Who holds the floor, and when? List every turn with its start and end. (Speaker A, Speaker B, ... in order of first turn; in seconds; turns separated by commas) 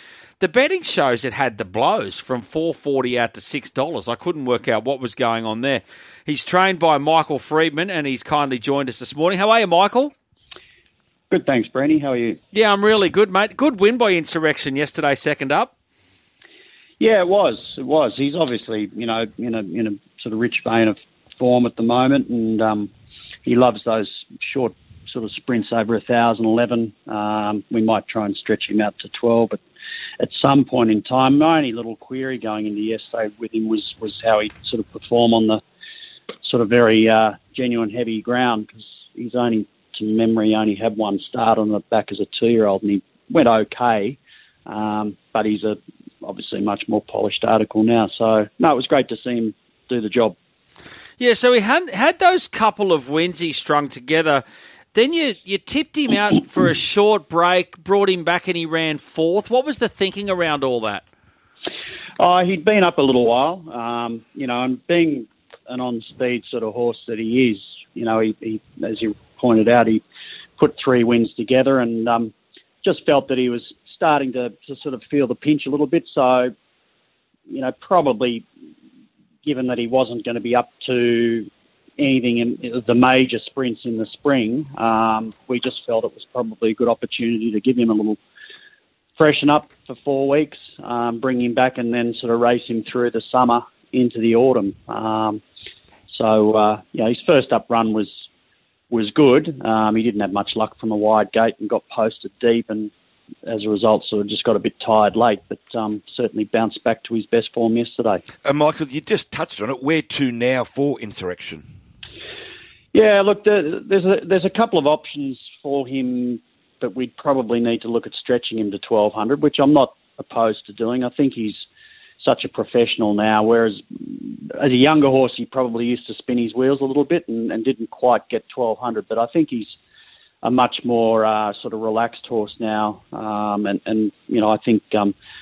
Speaker A: 0.4-10.1, Speaker B: 11.3-12.4, Speaker A: 12.5-15.7, Speaker B: 17.0-22.9, Speaker B: 23.4-29.6, Speaker B: 30.2-35.6, Speaker B: 36.4-50.4, Speaker A: 51.2-61.0, Speaker B: 62.2-70.0, Speaker B: 70.6-76.5, Speaker B: 77.5-78.4, Speaker B: 79.4-88.2, Speaker B: 89.2-95.4, Speaker B: 96.1-98.1, Speaker B: 98.9-102.9, Speaker B: 103.5-108.2, Speaker C: 108.4-111.7, Speaker B: 112.9-121.6, Speaker B: 122.2-129.8, Speaker B: 130.4-135.1